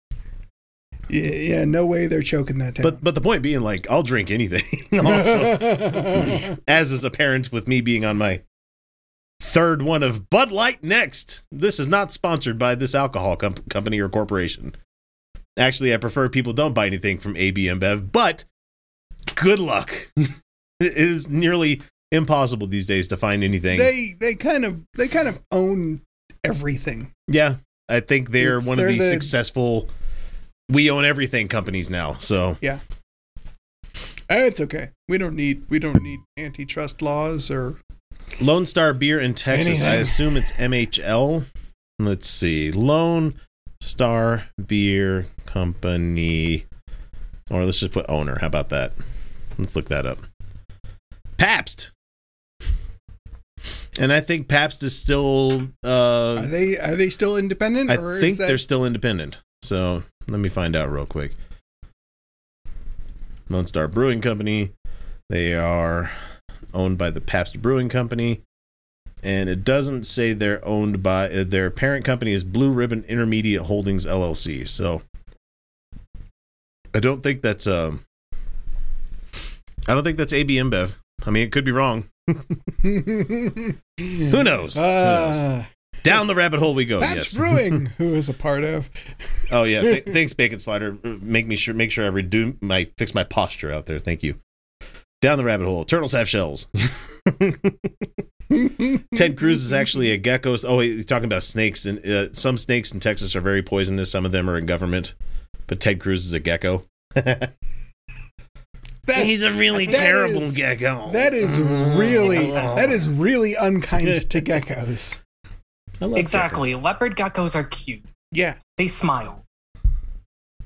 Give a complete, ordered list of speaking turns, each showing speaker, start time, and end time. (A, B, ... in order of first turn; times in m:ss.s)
0:01.1-0:03.0 A
0:02.8-0:08.4 B
0:05.2-0:06.5 A
0:09.4-0:14.8 B
0:15.6-0:18.4 B
0:19.3-0:23.9 B
0:23.7-0:27.1 A
0:27.3-0:29.9 B
0:28.4-0:29.3 A
0:30.7-0:32.6 B
0:34.3-0:37.8 A
0:38.4-0:41.4 B
0:39.5-0:40.3 A
0:42.0-0:46.6 B
0:47.5-0:48.9 B
0:49.6-0:50.2 B
0:51.4-0:51.9 B
0:54.0-0:56.5 B
0:56.4-0:58.6 A
0:57.9-1:01.3 B
1:03.5-1:04.7 B
1:05.3-1:06.1 B
1:06.7-1:08.4 B
1:09.2-1:15.0 B
1:16.9-1:18.0 B
1:19.9-1:22.6 B
1:22.8-1:25.7 A
1:24.3-1:25.4 B
1:26.0-1:27.8 B
1:27.0-1:28.9 A
1:29.5-1:34.4 B
1:35.2-1:38.1 B
1:38.6-1:39.2 A
1:39.1-1:45.1 B
1:45.7-1:47.5 B
1:49.0-1:55.2 A
1:49.1-1:53.0 B
1:56.0-1:56.7 B
1:56.2-1:58.1 C
1:58.3-1:58.6 A
1:58.8-1:59.4 C